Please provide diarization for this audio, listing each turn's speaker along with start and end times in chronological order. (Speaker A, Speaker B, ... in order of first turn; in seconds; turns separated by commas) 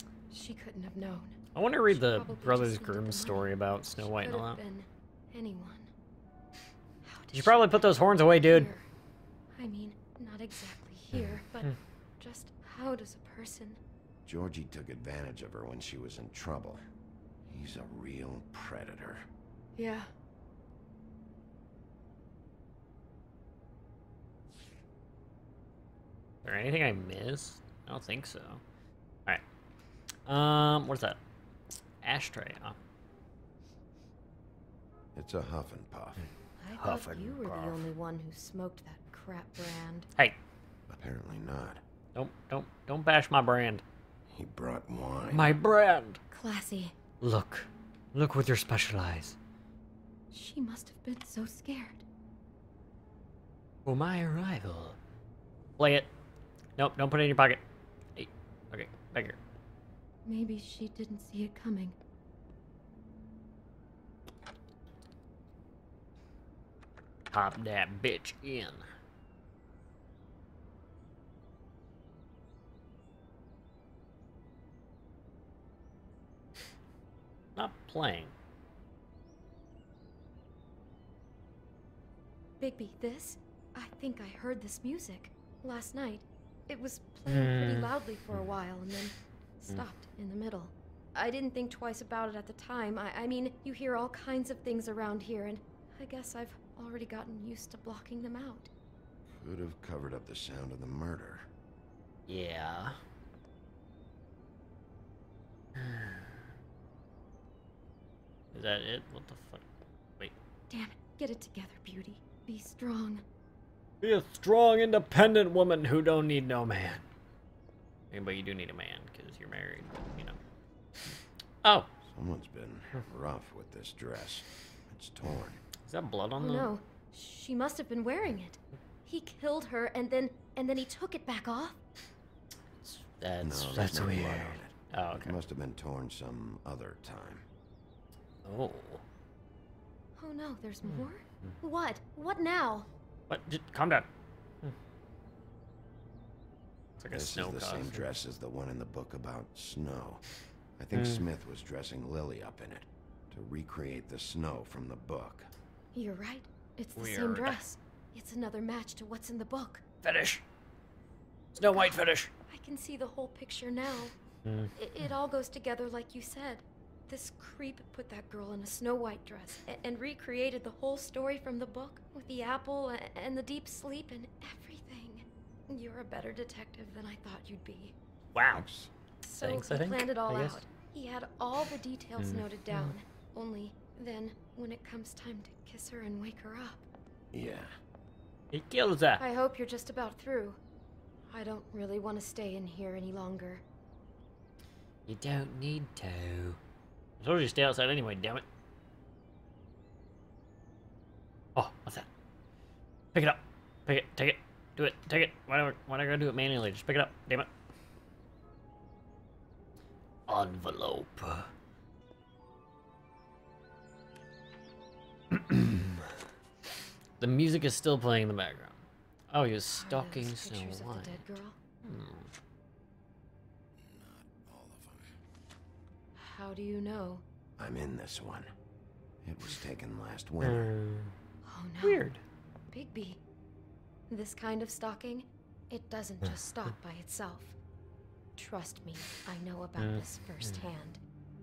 Speaker A: 0.3-1.4, Speaker B: 1.5-4.6, Speaker A: 1.9-5.9, Speaker A: 7.0-8.9, Speaker B: 7.3-8.7, Speaker A: 9.6-13.8, Speaker C: 14.3-16.8, Speaker C: 17.5-19.3, Speaker A: 19.8-20.1, Speaker B: 26.4-28.6, Speaker B: 30.3-31.2, Speaker B: 32.0-32.8, Speaker C: 35.1-36.3, Speaker A: 36.6-40.1, Speaker B: 36.8-37.9, Speaker C: 40.9-41.8, Speaker B: 42.1-43.8, Speaker C: 44.3-45.6, Speaker B: 45.3-46.2, Speaker A: 46.3-47.0, Speaker B: 47.2-49.4, Speaker A: 50.3-52.0, Speaker B: 53.9-55.0, Speaker B: 55.8-56.1, Speaker B: 56.8-57.6, Speaker B: 58.2-59.4, Speaker A: 60.2-62.0, Speaker B: 67.3-68.8, Speaker B: 77.6-78.3, Speaker A: 82.6-98.7, Speaker B: 87.3-87.9, Speaker C: 99.3-101.5, Speaker B: 102.3-103.0, Speaker B: 105.8-106.1, Speaker B: 108.5-109.7, Speaker A: 110.7-113.2, Speaker B: 114.0-117.0, Speaker B: 118.1-120.4, Speaker C: 122.1-125.6, Speaker B: 125.9-126.7, Speaker A: 126.4-131.8, Speaker B: 132.8-135.4, Speaker C: 133.4-137.4, Speaker B: 138.4-139.0, Speaker A: 140.2-142.9, Speaker B: 140.8-141.5, Speaker B: 143.3-144.1, Speaker B: 147.0-148.1, Speaker C: 147.1-150.2, Speaker C: 150.8-155.5, Speaker B: 150.9-151.2, Speaker A: 155.9-159.8, Speaker B: 157.0-157.6, Speaker B: 160.0-160.4, Speaker B: 161.5-162.3, Speaker A: 161.7-164.2, Speaker B: 164.4-164.7, Speaker A: 164.8-177.9, Speaker B: 178.3-178.6, Speaker C: 178.5-178.9, Speaker A: 179.2-186.9, Speaker B: 179.4-180.6, Speaker B: 182.2-182.9, Speaker C: 187.3-187.7, Speaker B: 188.5-189.2, Speaker A: 189.2-190.6, Speaker A: 191.3-193.6, Speaker B: 195.1-196.6, Speaker B: 197.2-198.4, Speaker B: 201.6-202.1, Speaker B: 203.1-207.5, Speaker B: 210.3-211.5, Speaker B: 215.3-215.8, Speaker B: 217.2-221.2, Speaker A: 219.7-221.6, Speaker B: 221.8-222.3, Speaker C: 223.8-225.1, Speaker A: 226.2-227.2, Speaker C: 227.6-228.5, Speaker C: 229.2-230.7, Speaker B: 230.4-231.1, Speaker A: 231.4-232.1, Speaker B: 231.8-232.2, Speaker A: 232.7-233.2, Speaker A: 234.1-237.6, Speaker A: 238.4-241.0, Speaker B: 239.8-240.6